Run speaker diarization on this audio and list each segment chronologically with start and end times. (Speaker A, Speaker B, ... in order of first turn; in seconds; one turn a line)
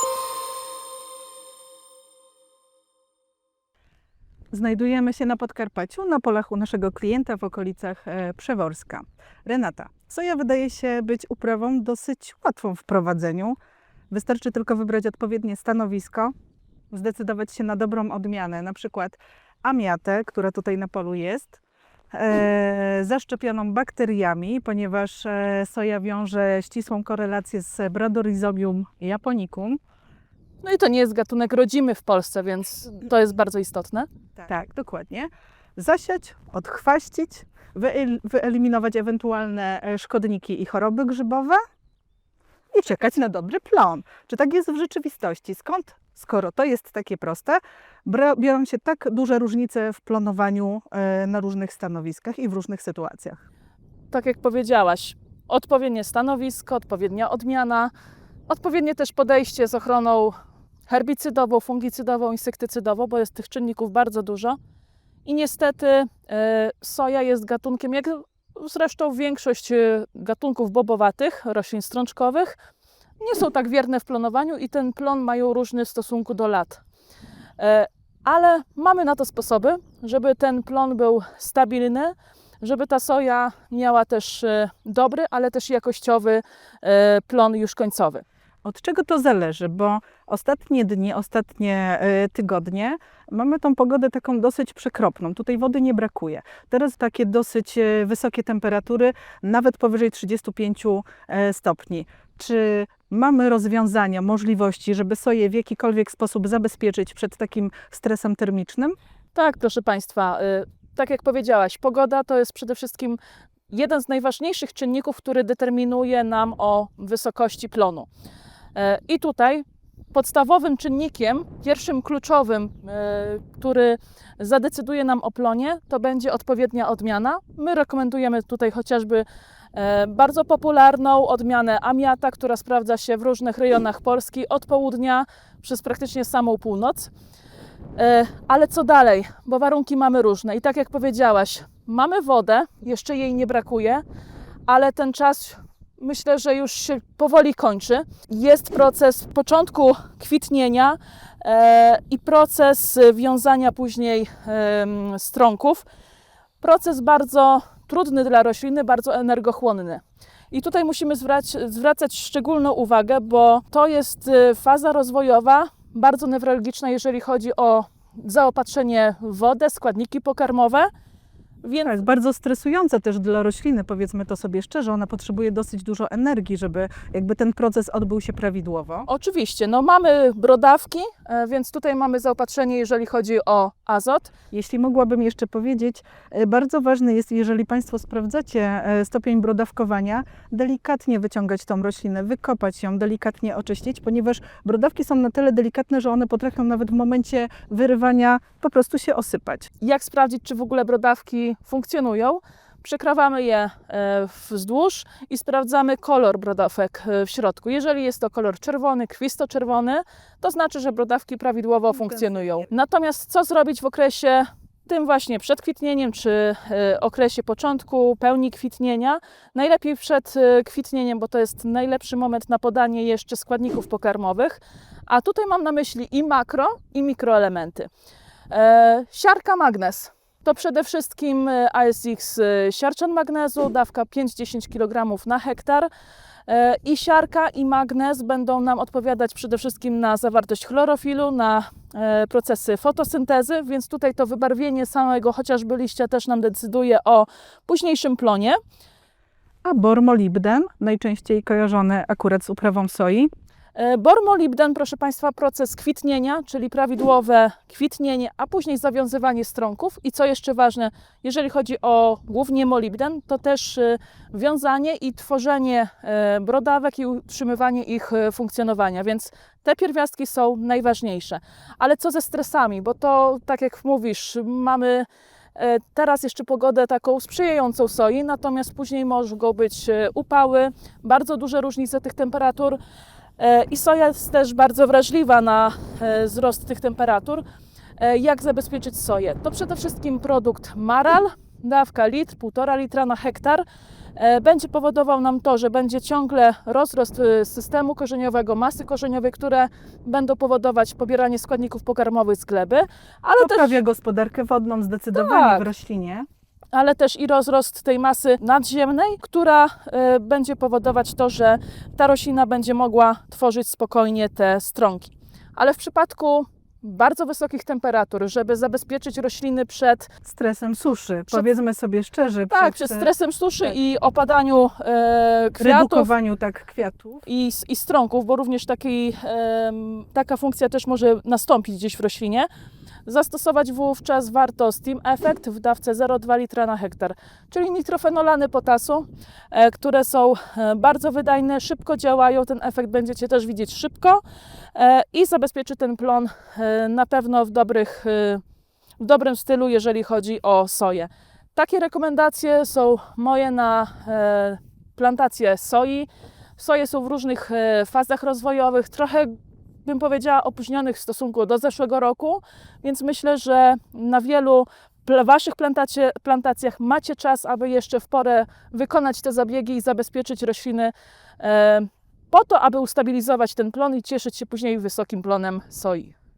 Speaker A: 4.5-13.6
Speaker A: 14.1-16.3
Speaker A: 16.9-21.6
Speaker A: 22.1-29.8
Speaker B: 30.6-34.1
Speaker A: 34.4-41.6
Speaker A: 42.7-53.4
Speaker B: 54.1-57.9
Speaker B: 58.5-60.4
Speaker B: 60.9-64.6
Speaker B: 65.2-72.6
Speaker B: 73.2-76.8
Speaker B: 77.6-88.2
Speaker A: 88.6-109.0
Speaker B: 109.3-113.2
Speaker B: 113.7-118.1
Speaker B: 118.8-137.1
Speaker B: 138.0-144.0
Speaker B: 144.7-155.9
Speaker B: 156.6-170.9
Speaker B: 171.6-171.9
Speaker A: 171.8-179.1
Speaker B: 179.1-184.3
Speaker A: 184.5-199.7
Speaker B: 199.8-227.9
Speaker A: 212.0-212.7
Speaker B: 228.5-235.9
Speaker B: 236.5-248.6
Speaker A: 249.6-253.3
Speaker B: 253.8-282.8
Speaker B: 283.4-287.4
Speaker B: 288.0-293.6
Speaker B: 294.2-303.8
Speaker A: 303.4-306.3
Speaker B: 305.1-305.7
Speaker B: 306.7-320.1
Speaker A: 320.2-323.1
Speaker B: 322.5-326.1
Speaker A: 325.6-327.2
Speaker B: 327.3-332.5
Speaker B: 333.1-344.2
Speaker B: 344.7-348.4
Speaker B: 349.0-359.3
Speaker B: 359.9-376.1